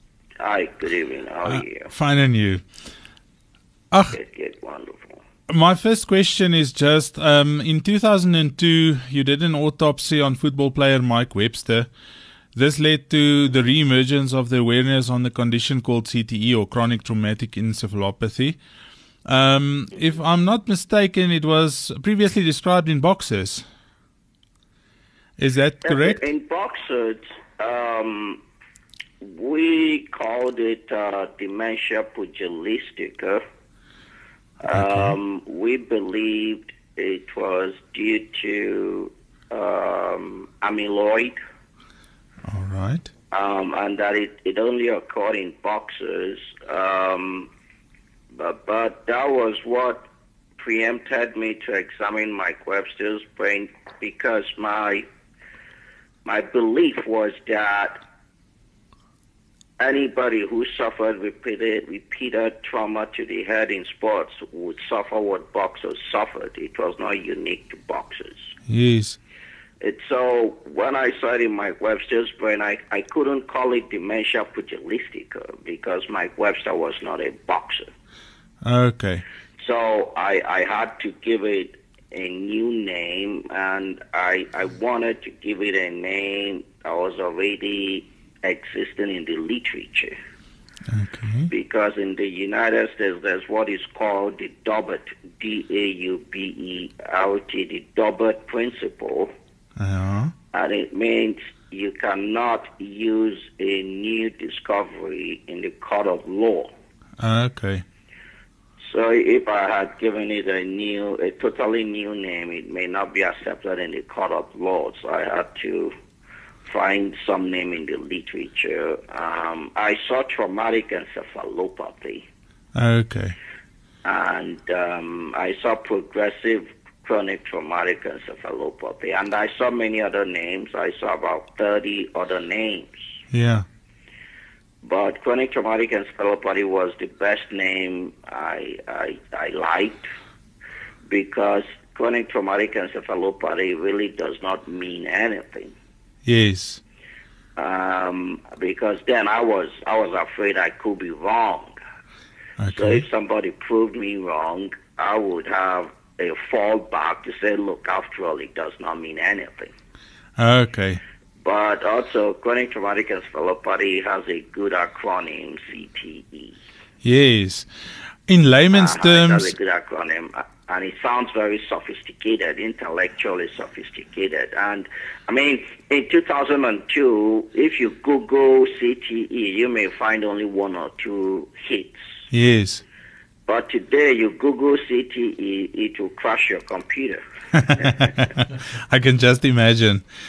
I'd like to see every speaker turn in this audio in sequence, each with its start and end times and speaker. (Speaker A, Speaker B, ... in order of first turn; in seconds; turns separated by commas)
Speaker A: 0.4-1.9, Speaker B: 1.5-2.6, Speaker B: 3.9-4.2, Speaker A: 4.1-5.2, Speaker B: 5.5-11.9, Speaker B: 12.6-18.6, Speaker B: 19.3-23.7, Speaker B: 25.4-26.2, Speaker A: 25.9-28.4, Speaker A: 29.2-33.4, Speaker A: 34.6-41.4, Speaker B: 34.7-35.1, Speaker B: 42.5-43.1, Speaker A: 43.3-47.5, Speaker A: 48.4-50.1, Speaker A: 50.6-55.0, Speaker A: 56.2-58.0, Speaker A: 59.8-68.4, Speaker B: 68.7-69.2, Speaker A: 69.8-77.9, Speaker B: 78.6-79.2, Speaker A: 79.6-90.2, Speaker B: 90.9-91.5, Speaker A: 91.5-99.3, Speaker B: 99.8-100.3, Speaker A: 100.5-106.7, Speaker B: 107.2-107.8, Speaker A: 108.9-115.9, Speaker A: 116.7-122.3, Speaker B: 122.8-123.4, Speaker A: 124.0-132.9, Speaker B: 133.3-133.7, Speaker A: 134.8-140.1, Speaker A: 141.1-145.7, Speaker B: 146.3-146.8, Speaker A: 147.6-151.8, Speaker B: 152.6-153.0, Speaker A: 152.8-159.7, Speaker B: 160.4-161.0, Speaker A: 161.4-166.6, Speaker B: 167.0-167.7, Speaker B: 168.3-169.5, Speaker A: 168.7-182.0, Speaker B: 182.3-182.8, Speaker A: 183.5-187.2, Speaker B: 187.6-190.0, Speaker A: 187.7-188.1